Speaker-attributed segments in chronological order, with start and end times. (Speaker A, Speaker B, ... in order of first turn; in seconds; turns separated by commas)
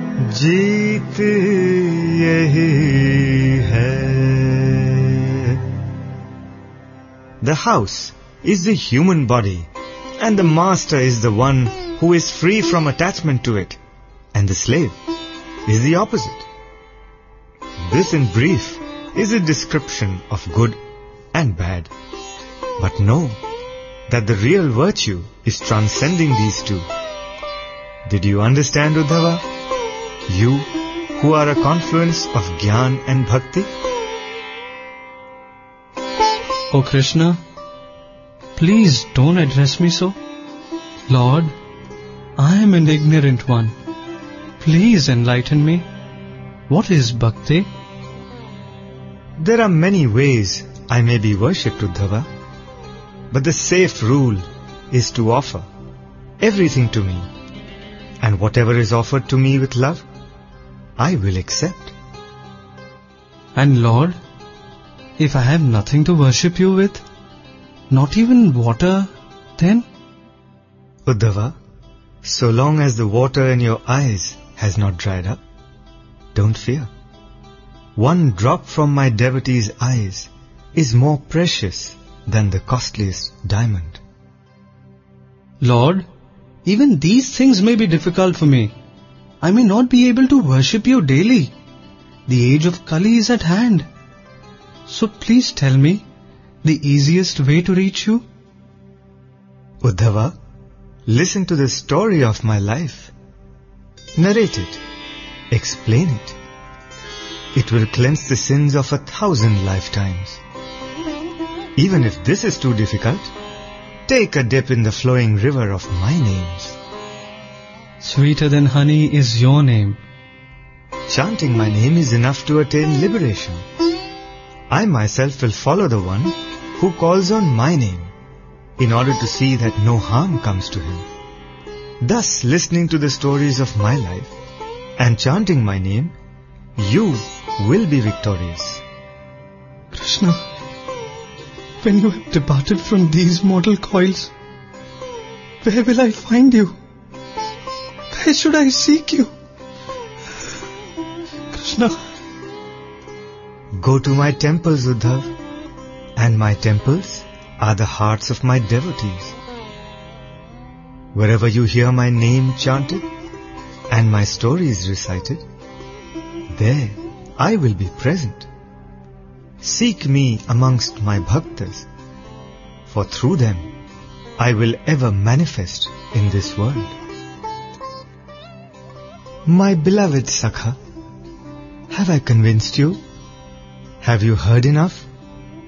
Speaker A: 0.2-5.6, Speaker A: 7.4-13.8, Speaker A: 14.3-15.0, Speaker A: 15.7-16.5, Speaker A: 17.8-20.8, Speaker A: 21.3-21.9, Speaker A: 22.8-23.4, Speaker A: 24.1-26.9, Speaker A: 28.1-29.4, Speaker A: 30.3-33.7, Speaker B: 36.7-37.4, Speaker B: 38.6-40.2, Speaker B: 41.1-41.5, Speaker B: 42.4-43.8, Speaker B: 44.6-45.9, Speaker B: 46.7-47.7, Speaker A: 49.4-52.3, Speaker A: 53.3-55.7, Speaker A: 56.4-57.3, Speaker A: 58.2-60.0, Speaker A: 61.0-62.0, Speaker B: 63.5-64.2, Speaker B: 65.2-67.0, Speaker B: 67.9-69.9, Speaker A: 71.1-71.6, Speaker A: 72.2-75.4, Speaker A: 76.3-76.9, Speaker A: 78.0-84.0, Speaker B: 85.6-86.1, Speaker B: 86.7-88.7, Speaker B: 89.4-91.5, Speaker B: 92.3-93.9, Speaker B: 94.9-96.0, Speaker B: 96.6-98.2, Speaker A: 99.8-100.4, Speaker A: 101.1-103.1, Speaker A: 104.2-104.8, Speaker A: 105.5-106.4, Speaker A: 107.5-110.4, Speaker A: 111.8-113.3, Speaker A: 114.1-116.8, Speaker B: 118.0-120.0, Speaker A: 121.1-123.7, Speaker A: 124.7-128.1, Speaker A: 128.8-131.1, Speaker A: 132.0-134.3, Speaker A: 135.0-136.2, Speaker A: 136.8-138.8, Speaker B: 139.9-140.4, Speaker B: 141.8-144.3, Speaker B: 145.6-146.8, Speaker B: 148.1-149.3, Speaker B: 151.5-152.0, Speaker A: 153.7-155.3, Speaker A: 156.2-159.3, Speaker A: 161.1-163.1, Speaker A: 163.9-165.4, Speaker A: 166.5-168.5, Speaker A: 169.6-171.9, Speaker A: 172.9-173.7, Speaker A: 174.4-176.9, Speaker A: 179.5-180.8, Speaker A: 181.9-183.0, Speaker A: 184.0-185.1